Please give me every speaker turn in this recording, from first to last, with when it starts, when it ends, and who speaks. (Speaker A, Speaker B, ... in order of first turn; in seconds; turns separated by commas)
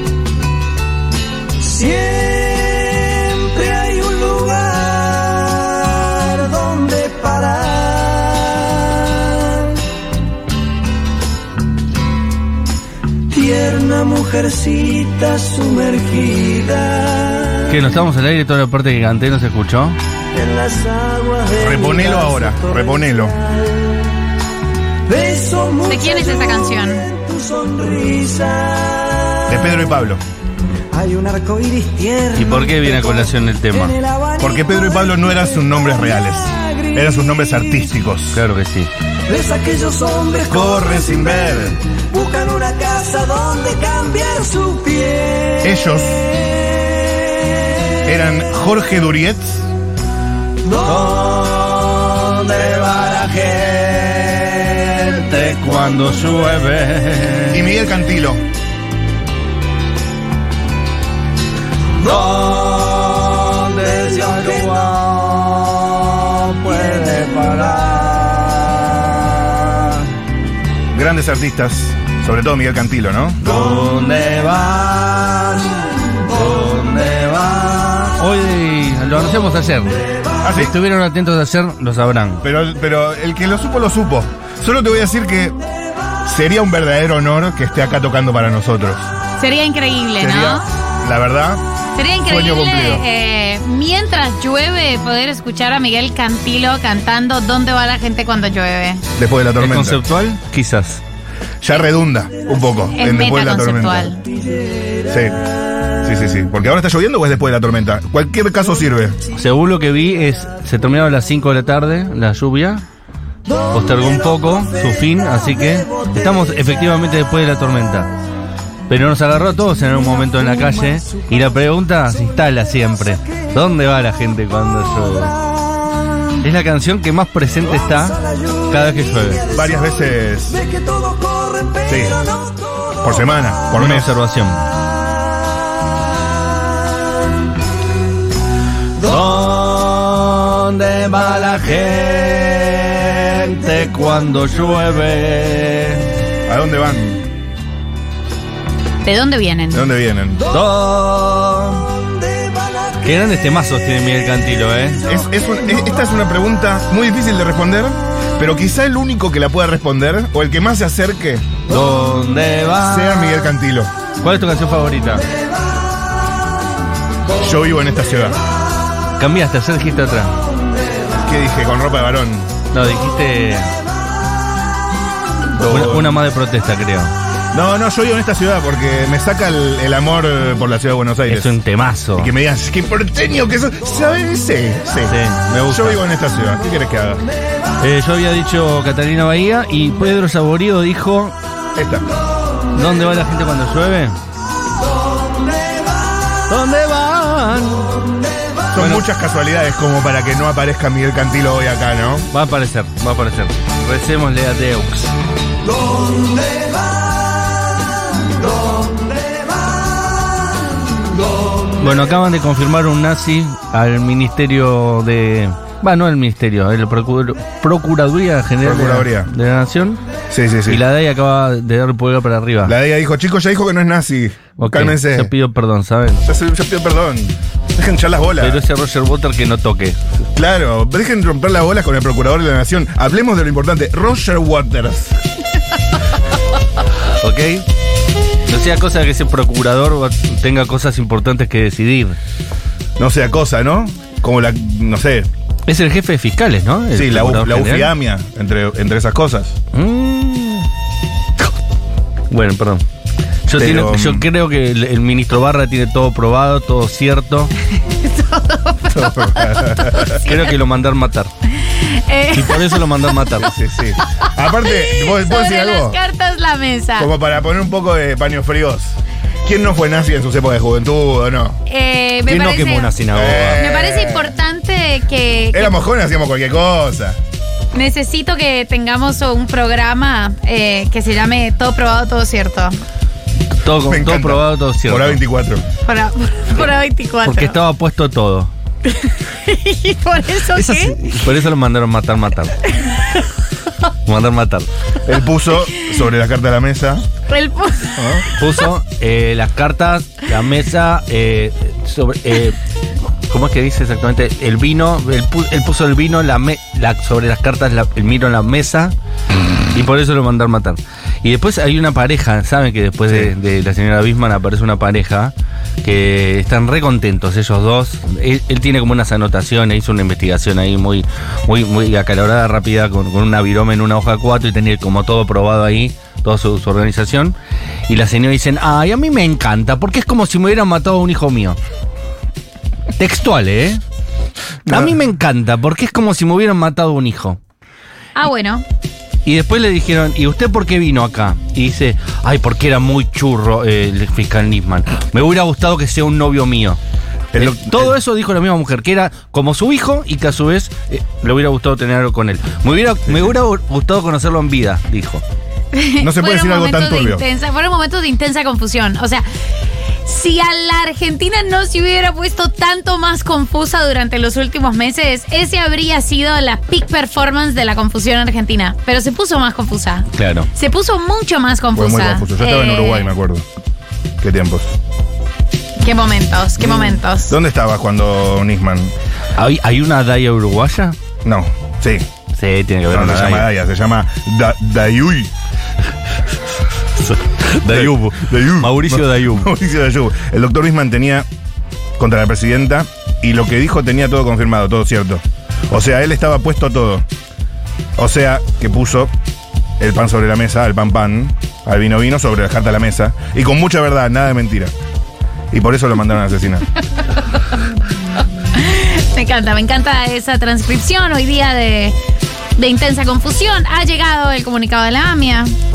Speaker A: 1.6-9.7, Speaker A: 13.3-17.7, Speaker B: 17.7-20.0, Speaker A: 20.3-23.6, Speaker C: 21.6-23.3, Speaker A: 25.1-29.5, Speaker D: 25.9-27.1, Speaker C: 29.5-30.2, Speaker A: 30.9-37.0, Speaker B: 32.3-34.0, Speaker C: 34.4-38.4, Speaker B: 38.3-38.9, Speaker A: 39.3-45.7, Speaker C: 40.5-41.8, Speaker C: 45.6-46.3, Speaker A: 46.3-47.2, Speaker C: 48.0-49.7, Speaker A: 50.7-51.3, Speaker B: 50.8-57.6, Speaker C: 57.5-58.4, Speaker B: 62.0-70.0, Speaker C: 70.9-73.5, Speaker B: 73.4-82.4, Speaker C: 80.4-80.8, Speaker C: 82.4-85.5, Speaker C: 86.2-89.1, Speaker D: 89.4-90.6, Speaker C: 90.2-91.6, Speaker D: 92.0-99.0, Speaker C: 92.2-93.0, Speaker C: 99.2-100.0, Speaker B: 99.6-101.0, Speaker C: 101.6-104.1, Speaker D: 102.9-104.2, Speaker C: 105.1-105.4, Speaker C: 106.0-109.2, Speaker B: 109.3-112.8, Speaker B: 113.7-118.1, Speaker B: 118.9-125.3, Speaker A: 120.5-121.2, Speaker B: 126.4-128.2, Speaker A: 127.8-129.9, Speaker B: 128.7-129.4, Speaker C: 129.5-130.6, Speaker A: 130.5-133.1, Speaker C: 131.9-132.2, Speaker C: 133.0-134.1, Speaker B: 133.7-134.7, Speaker B: 139.0-146.0, Speaker C: 146.5-147.2, Speaker D: 149.0-149.9, Speaker C: 149.7-150.4, Speaker B: 150.5-151.9, Speaker A: 152.4-152.9, Speaker B: 153.0-155.0, Speaker C: 155.1-161.5, Speaker B: 161.7-163.5, Speaker C: 162.8-163.9, Speaker B: 164.2-165.2, Speaker C: 167.4-168.4, Speaker B: 169.2-170.4, Speaker C: 171.2-172.5, Speaker B: 172.7-173.8, Speaker C: 175.6-176.2, Speaker B: 175.7-177.1, Speaker C: 177.5-181.5, Speaker B: 181.3-182.3, Speaker C: 182.2-185.2, Speaker B: 185.1-186.0, Speaker C: 185.7-187.2, Speaker B: 187.8-191.3, Speaker C: 191.8-192.1, Speaker B: 192.7-194.2, Speaker B: 196.5-197.9, Speaker C: 198.7-202.3, Speaker B: 198.8-199.0, Speaker B: 202.3-205.1, Speaker A: 206.1-206.6, Speaker B: 211.8-220.0, Speaker C: 218.6-219.3, Speaker C: 220.3-220.8, Speaker B: 220.7-222.7, Speaker C: 222.6-225.3, Speaker B: 224.6-226.2, Speaker C: 226.2-228.6, Speaker B: 228.4-230.0, Speaker C: 230.3-235.2, Speaker B: 237.2-237.6, Speaker B: 238.5-242.2, Speaker C: 243.0-245.3, Speaker B: 245.7-247.9, Speaker C: 246.9-249.6, Speaker B: 249.7-250.7, Speaker B: 252.3-252.8, Speaker B: 253.4-257.5, Speaker C: 253.5-254.3, Speaker D: 258.0-260.5, Speaker C: 258.9-260.2, Speaker B: 260.2-261.3, Speaker D: 261.6-262.8, Speaker B: 262.3-263.5, Speaker C: 263.4-266.0, Speaker D: 264.5-267.1, Speaker C: 267.0-271.6, Speaker D: 271.6-272.9, Speaker B: 272.3-273.6, Speaker C: 273.1-274.3, Speaker D: 273.5-275.8, Speaker C: 275.5-277.2, Speaker D: 277.7-282.8, Speaker B: 283.6-285.2, Speaker C: 283.9-285.6, Speaker D: 285.8-287.6, Speaker B: 287.2-288.5, Speaker D: 288.9-291.0, Speaker B: 290.5-292.6, Speaker B: 294.1-294.7, Speaker C: 295.0-297.0, Speaker D: 297.3-298.0, Speaker C: 297.9-298.2, Speaker B: 298.3-302.6, Speaker B: 303.3-308.9, Speaker B: 309.7-327.3, Speaker C: 313.1-313.3, Speaker B: 327.9-331.6, Speaker B: 333.0-333.8, Speaker C: 334.7-335.0, Speaker B: 334.7-337.4, Speaker D: 338.1-338.6, Speaker B: 339.2-346.8, Speaker C: 347.3-347.9, Speaker B: 347.3-355.2, Speaker D: 355.7-359.2, Speaker C: 356.0-357.2, Speaker D: 360.1-373.1, Speaker B: 370.1-370.5, Speaker C: 371.7-373.4, Speaker C: 374.2-374.8, Speaker D: 375.8-377.3, Speaker C: 376.6-378.9, Speaker B: 379.4-380.9, Speaker C: 381.2-382.1, Speaker B: 382.4-383.5, Speaker C: 382.9-385.3, Speaker B: 387.0-389.5, Speaker C: 387.7-391.3, Speaker C: 392.0-397.0, Speaker C: 398.0-399.1, Speaker C: 399.8-404.7, Speaker C: 405.5-406.6, Speaker D: 408.5-411.9, Speaker D: 412.6-415.5